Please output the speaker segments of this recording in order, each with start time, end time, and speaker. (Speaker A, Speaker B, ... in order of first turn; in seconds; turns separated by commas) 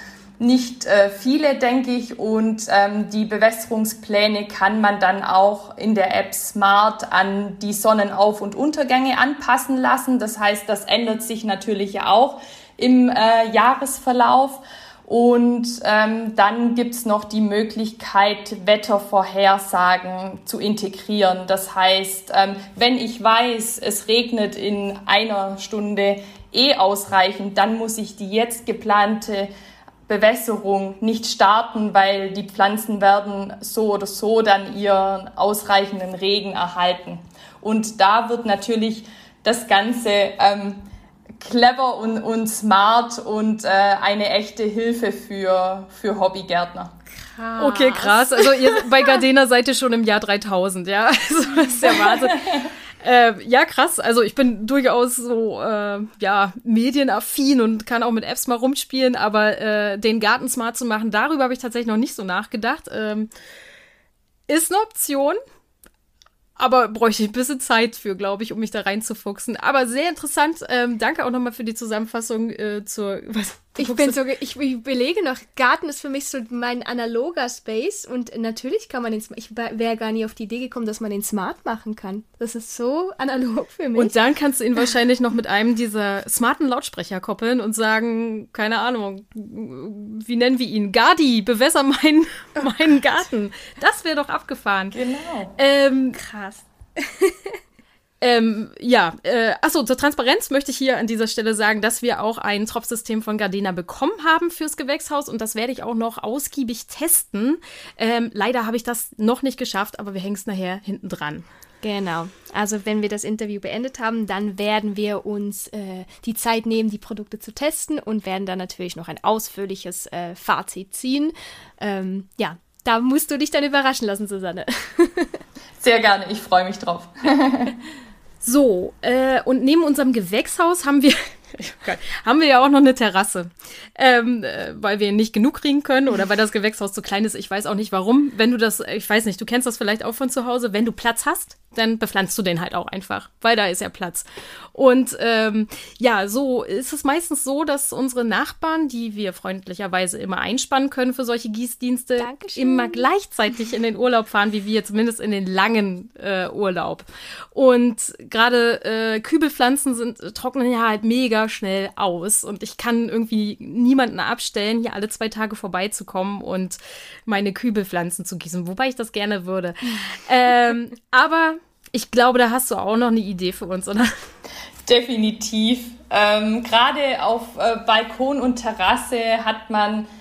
Speaker A: 0.4-29.5, Speaker A: 30.1-40.9, Speaker A: 41.4-46.9, Speaker B: 47.2-48.8, Speaker C: 47.6-63.3, Speaker C: 64.5-65.4, Speaker C: 66.6-74.2, Speaker B: 73.8-84.2, Speaker C: 84.0-95.0, Speaker A: 94.9-95.5, Speaker C: 95.6-96.2, Speaker B: 96.2-97.6, Speaker C: 98.2-111.5, Speaker B: 111.8-125.4, Speaker A: 125.8-127.8, Speaker C: 128.4-174.1, Speaker B: 152.2-153.1, Speaker A: 174.8-180.1